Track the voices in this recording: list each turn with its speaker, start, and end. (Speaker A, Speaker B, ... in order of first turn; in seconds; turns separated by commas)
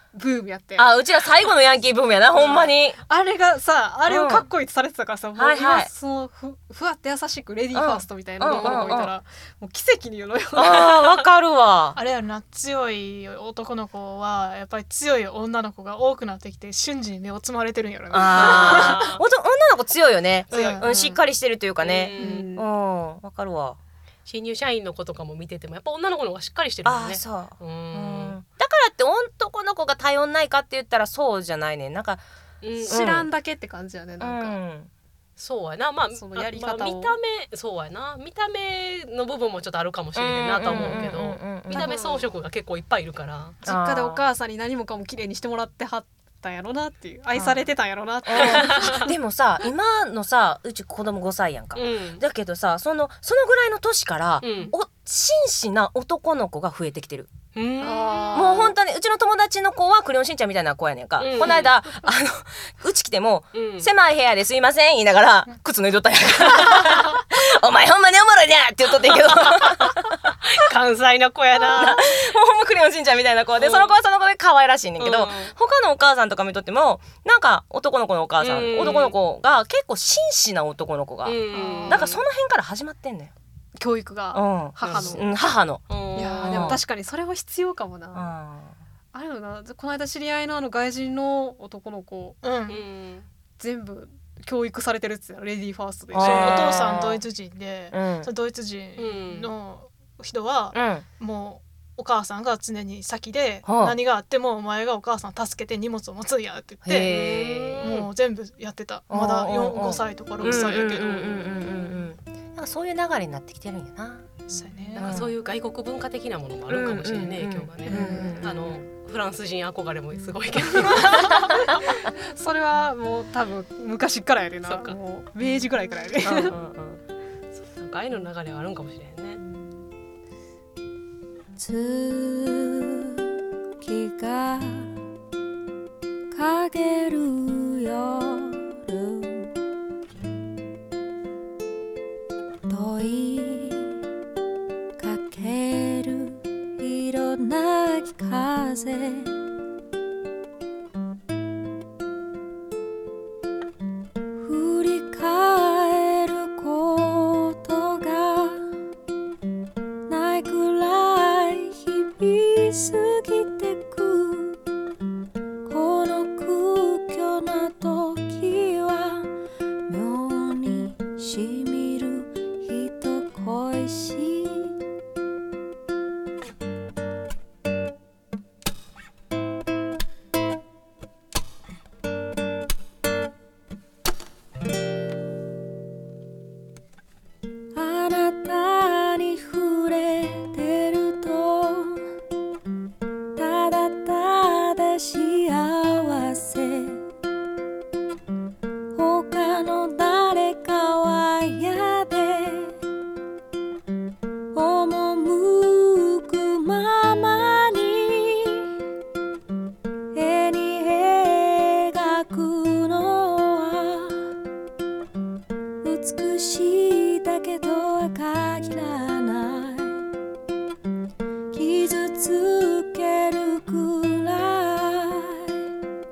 Speaker A: 0.1-0.9, Speaker B: 0.8-3.0, Speaker A: 2.3-11.0, Speaker C: 2.4-2.7, Speaker B: 4.1-4.5, Speaker B: 5.3-5.9, Speaker B: 7.7-9.1, Speaker B: 10.5-12.0, Speaker D: 11.9-19.0, Speaker B: 18.1-23.8, Speaker C: 18.3-19.2, Speaker D: 20.5-20.9, Speaker A: 20.8-21.2, Speaker C: 21.8-22.5, Speaker A: 22.2-22.7, Speaker C: 24.2-28.4, Speaker B: 26.8-32.2, Speaker C: 32.6-33.0, Speaker A: 32.8-34.6, Speaker B: 32.9-33.3, Speaker B: 34.2-34.9, Speaker C: 35.4-43.6, Speaker A: 36.1-37.2, Speaker B: 40.1-41.9, Speaker A: 40.7-41.1, Speaker A: 41.7-42.3, Speaker A: 43.6-49.1, Speaker B: 43.6-44.2, Speaker B: 48.2-57.3, Speaker C: 48.4-48.9, Speaker C: 51.7-52.2, Speaker C: 54.4-54.7, Speaker C: 57.5-58.5, Speaker A: 57.8-58.7, Speaker B: 58.3-70.2, Speaker C: 61.2-61.7, Speaker C: 63.5-63.9, Speaker C: 69.1-72.1, Speaker B: 71.7-83.3, Speaker C: 73.6-74.0, Speaker C: 75.0-75.5, Speaker C: 78.4-79.2, Speaker C: 81.2-82.2, Speaker A: 81.5-82.0, Speaker A: 83.8-85.2, Speaker B: 84.3-85.8, Speaker C: 84.8-85.2, Speaker C: 85.9-86.8, Speaker A: 86.1-88.3, Speaker B: 86.4-86.8, Speaker B: 88.1-88.7, Speaker A: 89.1-92.4, Speaker D: 92.4-92.8, Speaker C: 92.7-93.3, Speaker A: 93.6-96.6, Speaker B: 96.1-97.2, Speaker D: 96.2-107.2, Speaker B: 97.9-98.3, Speaker C: 99.0-99.5, Speaker B: 100.7-101.0, Speaker B: 103.7-103.9, Speaker B: 106.8-107.8, Speaker C: 107.0-108.1, Speaker D: 107.8-111.5, Speaker B: 109.1-114.3, Speaker D: 114.5-115.2, Speaker B: 114.9-115.3, Speaker C: 114.9-121.4, Speaker B: 116.7-118.8, Speaker D: 117.9-118.4, Speaker A: 118.0-118.3, Speaker D: 120.7-121.5, Speaker A: 122.3-126.5, Speaker C: 124.6-125.0, Speaker C: 126.2-127.0, Speaker C: 127.6-129.4, Speaker E: 131.6-133.2, Speaker E: 133.8-134.9, Speaker E: 136.3-139.5, Speaker E: 142.7-144.0, Speaker E: 145.0-149.3, Speaker E: 154.4-158.6, Speaker E: 160.1-164.6, Speaker E: 165.7-169.3, Speaker E: 169.9-174.7, Speaker E: 187.8-192.0, Speaker E: 193.3-197.0, Speaker E: 198.9-202.8, Speaker E: 204.5-208.7, Speaker E: 210.1-214.3, Speaker E: 215.8-220.1, Speaker E: 221.5-225.6